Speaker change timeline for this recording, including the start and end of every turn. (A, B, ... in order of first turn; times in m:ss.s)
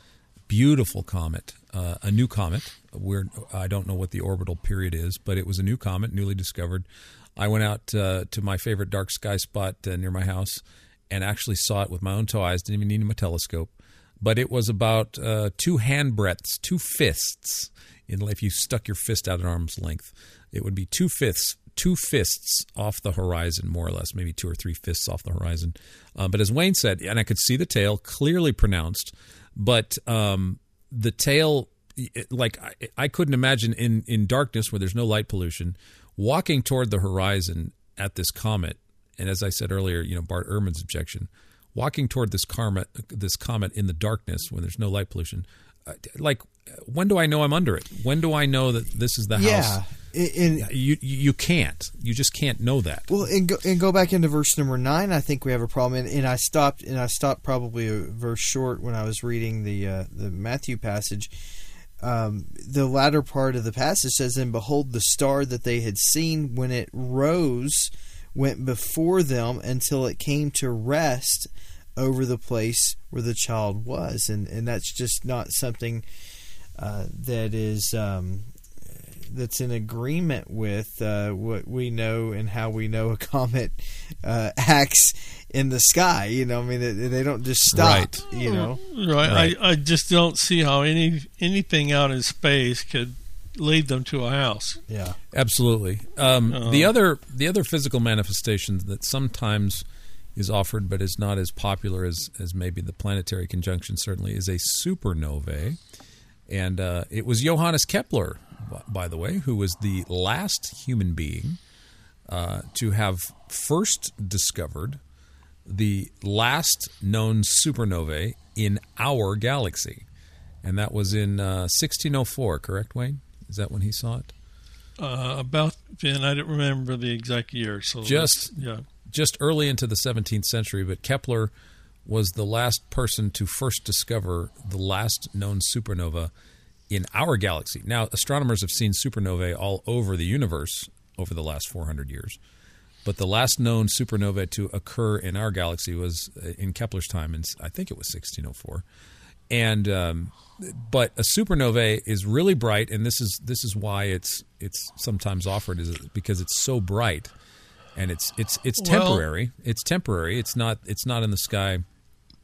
0:00.5-0:49.8 A
0:49.3-0:50.7 B
0:50.6-0:53.1 A
0:53.1-1:01.3 B
1:02.0-1:16.0 B
1:16.8-1:28.8 B
1:27.7-1:28.2 A
1:28.3-1:34.8 C
1:29.2-1:29.6 A
1:34.9-1:35.2 B
1:35.3-1:39.8 A
1:36.5-1:36.9 C
1:40.4-1:45.8 A
1:46.5-1:51.6 A
1:52.3-1:55.0 A
1:55.7-2:00.1 A
2:00.6-2:04.3 A
2:05.0-2:08.9 C
2:08.0-2:08.5 A
2:09.1-2:11.5 A
2:12.0-2:16.3 A
2:16.9-2:22.4 A
2:23.0-2:28.8 A
2:29.5-2:37.3 A
2:38.0-2:41.8 A
2:38.8-2:39.2 C